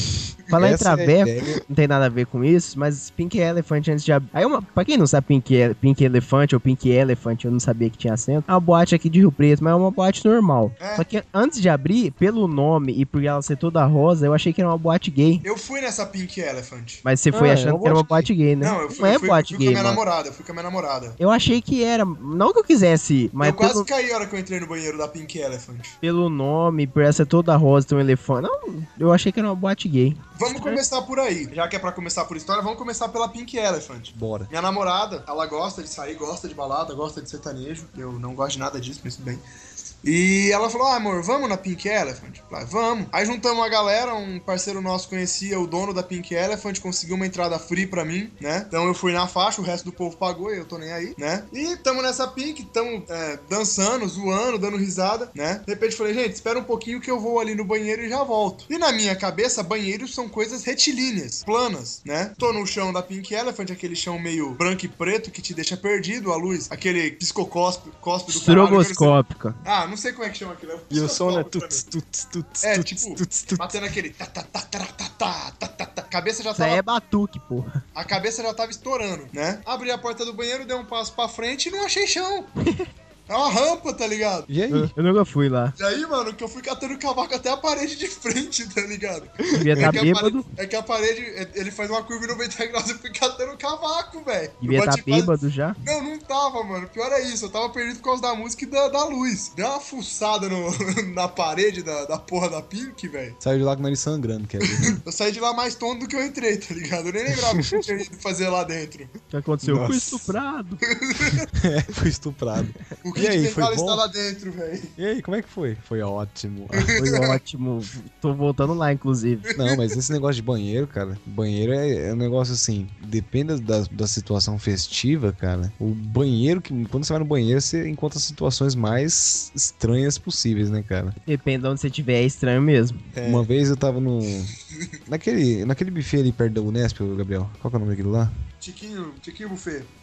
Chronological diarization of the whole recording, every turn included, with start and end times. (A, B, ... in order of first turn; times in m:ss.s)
0:00.5-0:15.4 A
0:00.6-0:01.6 B
0:10.8-0:11.1 C
0:15.4-0:17.0 C
0:17.0-0:20.0 A
0:17.3-0:18.3 B
0:18.6-0:21.2 C
0:21.2-0:23.9 A
0:23.4-0:26.0 C
0:26.0-0:30.8 A
0:30.4-0:39.4 C
0:34.1-0:34.5 B
0:40.0-1:11.8 C
1:08.3-1:09.6 A
1:10.9-1:13.7 D
1:12.6-1:16.8 C
1:16.5-1:17.7 A
1:17.9-1:22.5 C
1:23.3-1:24.5 C
1:24.5-1:24.9 B
1:24.9-1:25.7 A
1:25.8-1:43.4 C
1:29.5-1:30.0 D
1:29.5-1:30.4 A
1:34.6-1:35.8 A
1:43.4-1:45.0 B
1:44.8-1:49.1 C
1:49.3-1:50.8 A
1:49.6-1:50.2 D
1:50.8-1:51.4 C
1:51.6-1:54.0 B
1:53.0-1:54.9 C
1:55.0-1:56.9 B
1:56.8-1:57.4 C
1:56.9-1:59.5 A
1:59.5-1:59.8 C
1:59.5-2:11.2 B
2:11.2-2:13.0 A
2:13.1-2:13.5 D
2:13.2-2:14.5 B
2:15.1-2:18.3 B
2:18.6-2:19.9 C